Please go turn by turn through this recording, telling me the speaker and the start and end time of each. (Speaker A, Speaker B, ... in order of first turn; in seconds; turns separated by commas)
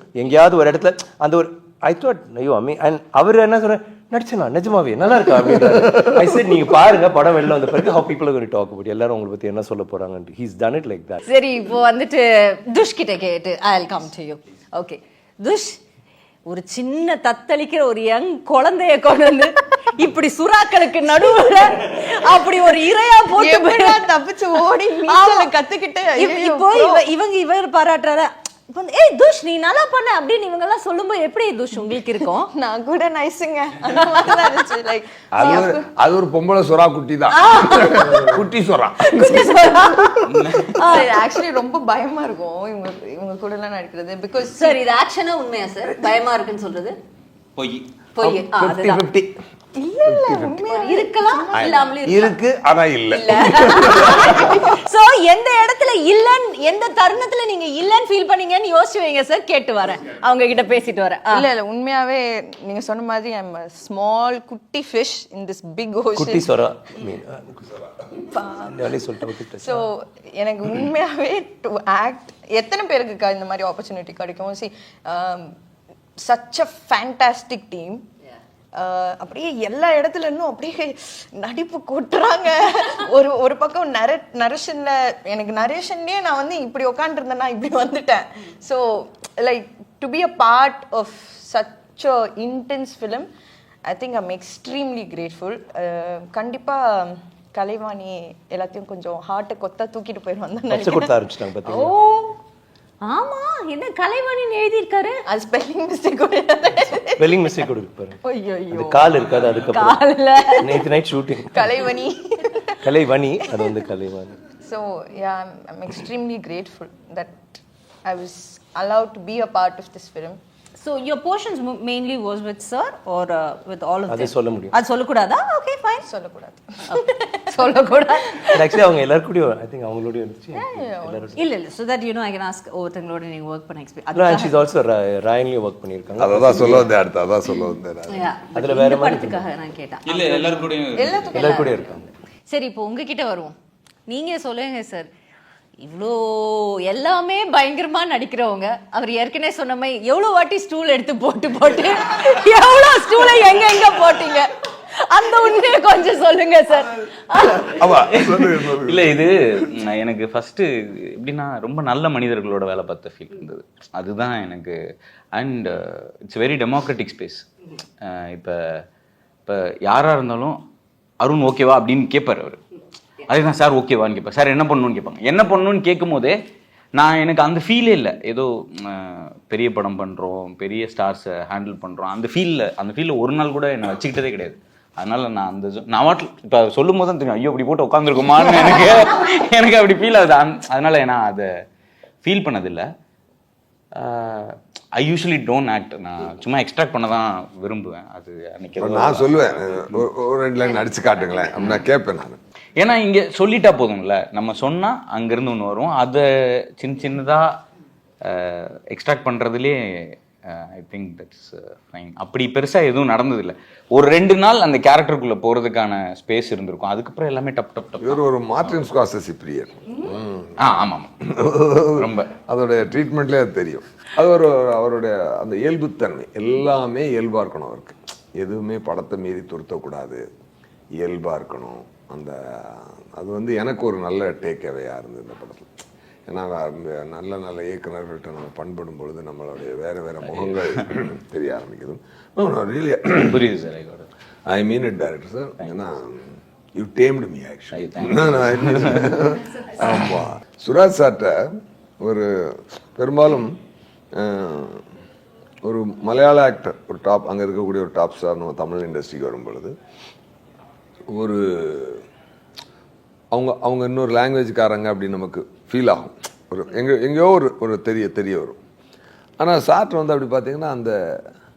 Speaker A: 0.1-11.2, Speaker B: 11.2-15.8, Speaker B: 16.5-24.1, Speaker C: 23.4-27.0, Speaker B: 25.1-25.5, Speaker B: 26.1-32.5, Speaker C: 32.5-35.9, Speaker D: 35.3-40.2, Speaker B: 37.3-38.4, Speaker B: 39.0-41.1, Speaker E: 40.3-40.8, Speaker C: 40.8-44.8, Speaker B: 44.5-47.0, Speaker E: 47.5-47.9, Speaker B: 48.1-49.0, Speaker D: 48.2-49.4, Speaker C: 49.7-52.0, Speaker D: 50.0-50.7, Speaker B: 50.7-52.4, Speaker D: 51.5-54.6, Speaker B: 53.1-61.5, Speaker C: 54.0-54.3, Speaker C: 61.3-66.5, Speaker A: 66.2-67.7, Speaker C: 68.3-75.5, Speaker A: 68.6-69.9, Speaker C: 76.2-78.0, Speaker C: 78.7-93.3, Speaker C: 93.8-101.2, Speaker A: 100.7-101.9, Speaker B: 101.7-102.3, Speaker B: 103.0-105.2, Speaker C: 105.3-107.7, Speaker A: 107.2-108.2, Speaker C: 108.3-109.4, Speaker A: 108.7-111.7, Speaker B: 109.7-110.8, Speaker C: 111.5-112.9, Speaker A: 112.8-114.3, Speaker C: 114.6-120.4, Speaker B: 120.8-126.1, Speaker A: 124.1-124.7, Speaker C: 126.0-127.0, Speaker B: 126.9-128.7, Speaker A: 128.5-131.4, Speaker C: 130.5-131.3, Speaker B: 131.3-134.6, Speaker A: 134.1-136.9, Speaker D: 136.2-138.2, Speaker B: 138.1-140.2, Speaker A: 138.5-139.4, Speaker E: 140.1-141.3, Speaker C: 140.2-142.0, Speaker A: 141.3-142.1, Speaker B: 142.5-143.5, Speaker B: 144.1-145.1, Speaker B: 145.8-157.7, Speaker D: 157.5-159.1, Speaker E: 158.0-164.8, Speaker E: 165.3-167.4, Speaker E: 168.0-168.8, Speaker E: 169.4-170.6, Speaker E: 171.2-172.6, Speaker E: 173.3-176.4, Speaker E: 176.9-191.5, Speaker E: 192.2-192.9, Speaker E: 193.9-200.0, Speaker D: 198.8-202.4, Speaker E: 202.8-207.6, Speaker E: 208.2-218.2, Speaker D: 218.0-220.6, Speaker E: 220.6-221.3, Speaker D: 221.2-230.2, Speaker E: 221.8-222.3, Speaker D: 230.9-235.8, Speaker D: 236.3-243.5, Speaker E: 240.2-240.8, Speaker E: 243.2-244.1, Speaker D: 244.5-253.6, Speaker E: 247.7-249.2, Speaker D: 254.1-254.8, Speaker D: 255.6-259.7, Speaker D: 261.1-262.0, Speaker D: 263.3-268.6, Speaker D: 269.4-271.2